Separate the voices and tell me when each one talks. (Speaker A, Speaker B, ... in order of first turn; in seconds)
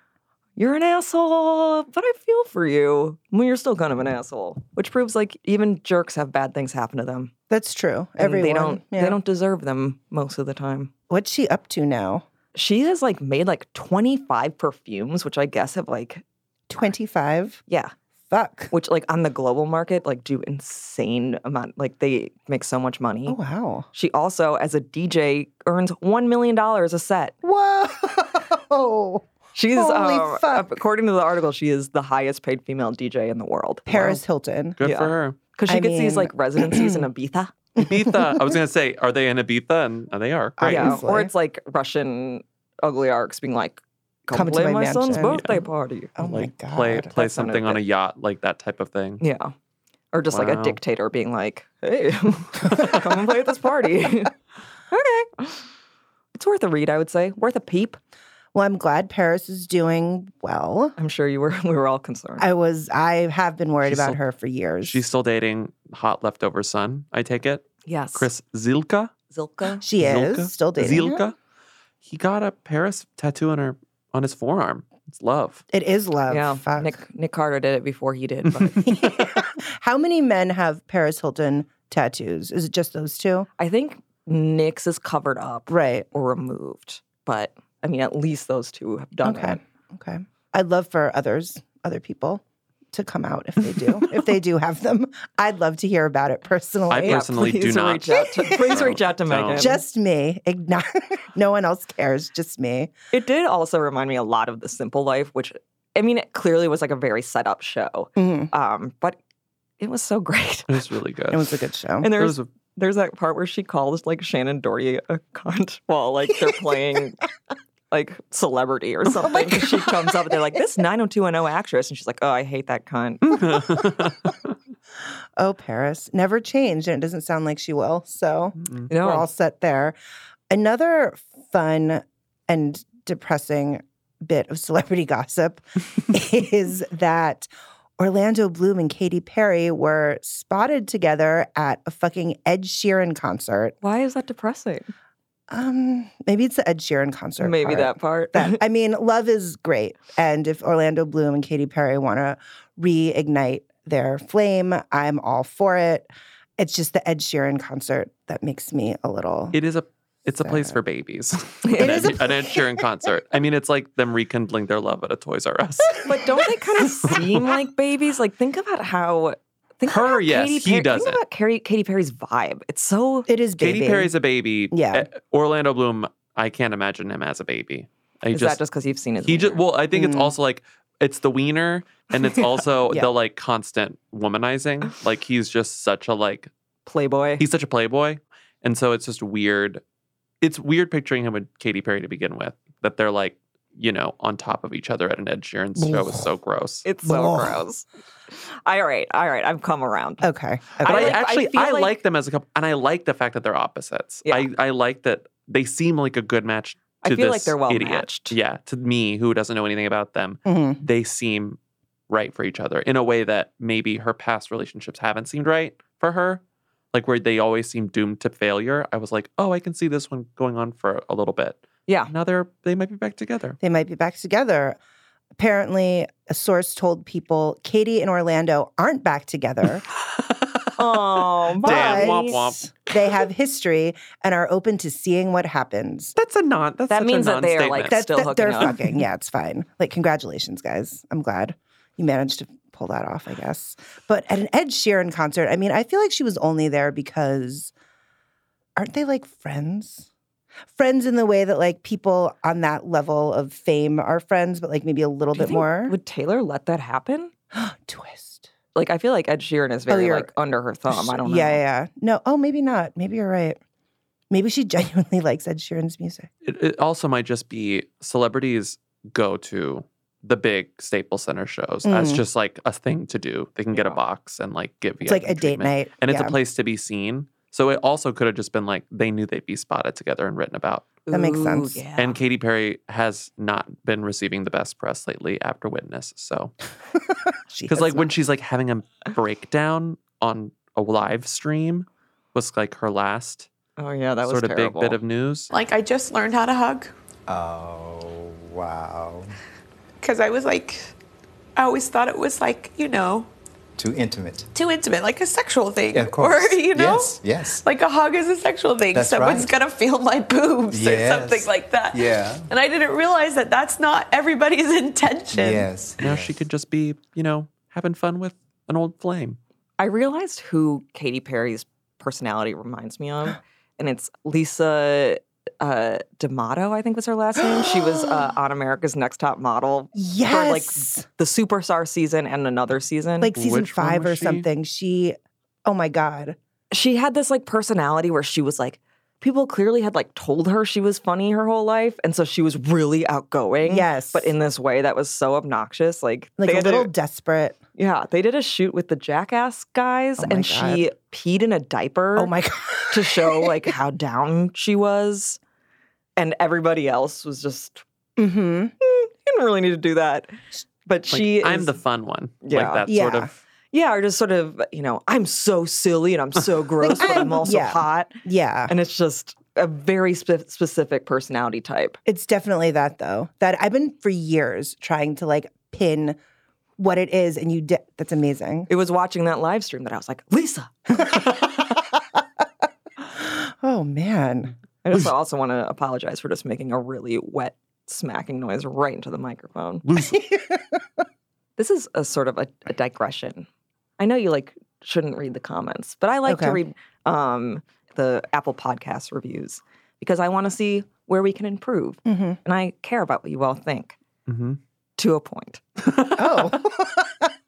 Speaker A: 0.6-7.3, 8.2-10.9, 12.5-16.2, 17.7-17.9, 18.7-23.4, 23.9-27.3, 29.5-34.2, 34.8-37.5, 40.6-46.2, 47.1-47.8, 49.2-49.5, 50.1-54.3, 54.9-55.7, 56.4-58.0, 61.0-62.5, 67.8-68.3, 69.3-69.8, 76.3-78.9, 83.6-89.6, 97.0-99.8, 103.1-109.2, 109.8-110.7, 112.0-117.2, 117.9-123.3, 128.9-129.3, 143.8-144.9, 147.4-148.6, 161.6-162.1, 166.0-173.3, 178.3-179.6, 186.8-187.4, 196.8-200.3, 200.8-202.0, 207.0-208.3, 230.8-232.4, 236.9-238.8, 255.3-257.3, 258.7-261.6, 273.7-274.0, 281.1-282.2, 293.8-295.0, 319.8-333.3, 336.7-346.9, 347.8-352.3, 352.9-355.4, 356.2-357.8, 358.8-360.3, 360.9-361.7, 362.4-362.9, 363.7-368.2, 368.7-372.0, 378.7-381.0, 384.8-389.8, 391.6-393.5, 394.0-404.0, 405.0-405.6
Speaker B: 7.5-9.2, 11.1-12.2, 16.7-17.6, 18.3-18.7, 23.3-23.9, 27.4-30.7, 33.9-34.8, 35.7-37.0, 37.8-38.5, 40.6-41.3, 44.3-45.4, 46.2-47.1, 58.5-60.9, 62.4-65.0, 69.8-71.2, 75.7-76.9, 78.8-83.5, 85.7-86.1, 89.2-97.2, 98.3-98.7, 99.5-102.9, 108.2-108.5, 111.3-112.1, 119.2-120.1, 125.4-129.9, 130.5-143.7, 145.5-159.6, 160.4-160.8, 161.8-162.7, 173.3-174.1, 174.7-175.1, 179.9-180.3, 197.1-197.6, 200.2-201.2, 210.4-210.8, 223.6-224.8, 225.4-229.8, 231.6-236.1, 237.9-247.7, 248.8-250.1, 250.7-255.9, 257.5-258.5, 259.9-260.3, 260.9-263.6, 264.3-266.3, 271.8-272.2, 275.0-276.4, 281.1-281.8, 287.5-288.1, 327.5-328.1, 329.9-331.1, 333.2-336.4, 343.6-344.3, 346.4-347.6, 350.2-350.9, 352.1-353.7, 358.2-358.7, 362.9-363.3, 366.8-368.7, 372.1-376.2, 376.8-378.7, 383.1-384.6, 390.1-390.8, 396.2-396.6, 402.0-402.4, 406.1-407.3
Speaker C: 34.8-35.4, 37.8-41.0, 45.2-45.7, 46.2-49.2, 50.3-50.8, 63.8-64.2, 64.8-69.1, 70.0-71.3, 72.0-75.6, 96.9-99.7, 110.7-111.5, 112.0-112.5, 123.2-124.4, 128.6-128.9, 159.5-166.1, 169.8-171.2, 173.6-178.6, 179.2-186.5, 187.4-189.8, 190.4-196.8, 200.8-211.6, 212.1-216.4, 216.9-223.6, 231.6-232.7, 236.2-237.9, 266.4-280.9, 282.0-286.5, 287.7-293.5, 294.2-295.5, 316.0-319.4, 333.3-334.4, 361.1-363.3, 389.9-390.2, 404.3-404.6, 405.8-406.5
Speaker D: 295.5-296.9, 300.0-300.9, 301.6-303.3, 304.5-315.7
Speaker E: 297.3-299.3, 303.8-304.5, 305.9-307.6, 308.9-309.5, 310.7-312.5, 315.3-316.3